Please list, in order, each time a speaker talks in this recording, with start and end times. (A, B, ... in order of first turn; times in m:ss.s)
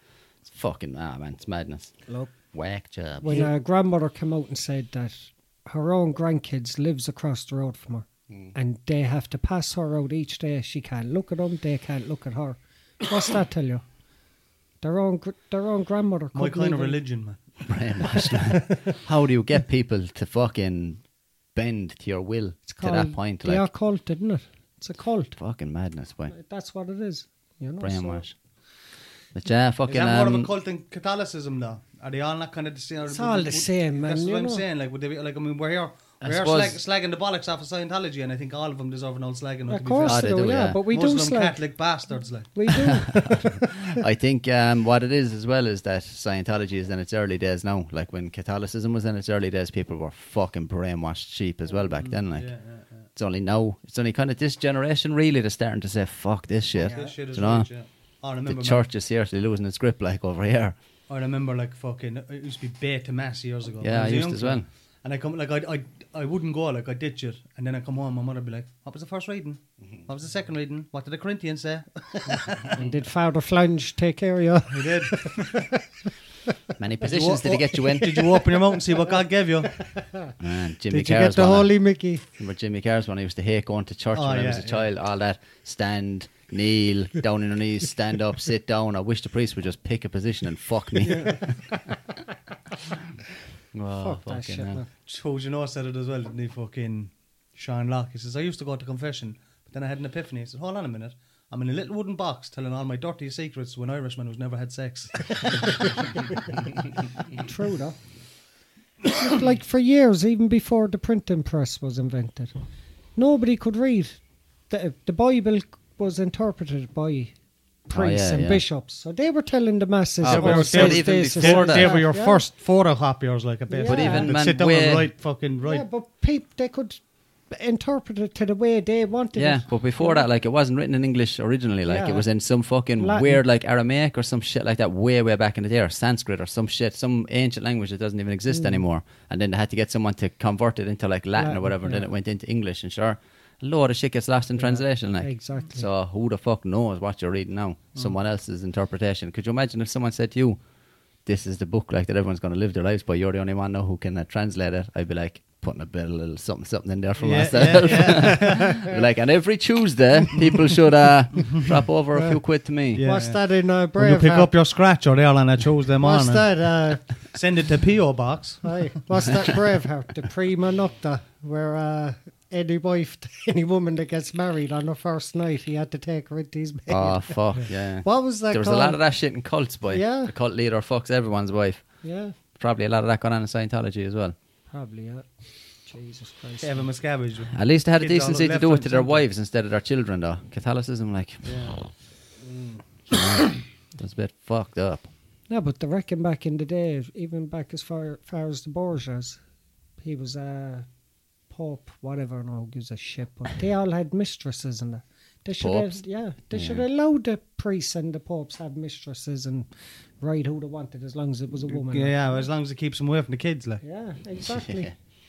0:00.4-0:03.4 A
0:02.1-0:02.3 B
0:03.2-0:13.8 B
0:14.8-0:17.0 B
0:16.3-0:17.6 C
0:17.6-0:23.7 A
0:22.7-0:25.4 B
0:25.4-0:26.3 A
0:26.3-0:28.2 B
0:27.8-0:28.4 A
0:29.3-0:30.5 A
0:29.9-0:40.3 C
0:33.1-0:34.6 B
0:36.2-0:36.8 A
0:39.7-0:41.6 B
0:40.0-0:40.8 A
0:40.8-0:42.9 C
0:42.5-0:43.7 B
0:42.7-0:52.5 A
0:52.0-0:53.1 C
0:53.1-0:57.7 A
0:56.8-0:57.2 B
0:56.9-0:58.8 C
0:58.4-1:00.7 A
1:01.1-1:12.8 C
1:03.8-1:04.6 A
1:12.6-1:15.8 B
1:14.7-1:15.5 C
1:16.8-1:18.2 A
1:17.0-1:19.9 C
1:19.8-1:20.3 B
1:20.4-1:21.8 A
1:20.9-1:22.2 B
1:22.3-1:31.7 A
1:24.1-1:24.8 C
1:31.0-1:31.3 C
1:33.7-1:34.8 A
1:34.0-1:34.9 B
1:35.0-1:46.0 C
1:47.3-1:48.0 B
1:49.1-1:52.5 B
1:53.2-1:57.3 B
1:57.8-2:02.5 B
1:57.9-1:58.6 A
2:00.2-2:02.0 A
2:00.2-2:05.8 C
2:03.7-2:04.4 B
2:03.8-2:05.1 A
2:05.6-2:10.2 B
2:09.3-2:30.6 A
2:11.8-2:12.2 B
2:13.0-2:13.4 B
2:18.5-2:18.8 B
2:21.4-2:22.1 B
2:24.6-2:25.9 B
2:31.2-2:43.0 A
2:37.2-2:38.8 C
2:37.9-2:38.8 B
2:41.4-2:41.8 C
2:42.9-2:46.5 C
2:43.0-2:44.5 B
2:46.0-2:47.1 B
2:47.2-2:48.9 C
2:48.6-2:59.0 B
2:56.9-3:04.3 A
2:59.9-3:00.3 B
3:02.0-3:02.3 B
3:04.7-3:05.3 B
3:05.8-3:06.8 B
3:06.6-3:09.2 C
3:07.5-3:11.9 A
3:11.4-3:11.8 C
3:12.4-3:12.8 B
3:13.1-3:15.1 A
3:15.5-3:19.4 B
3:20.0-3:20.9 B
3:21.5-3:32.2 B
3:25.6-3:26.8 A
3:31.7-3:33.8 C
3:33.8-3:34.9 B
3:34.4-3:34.9 A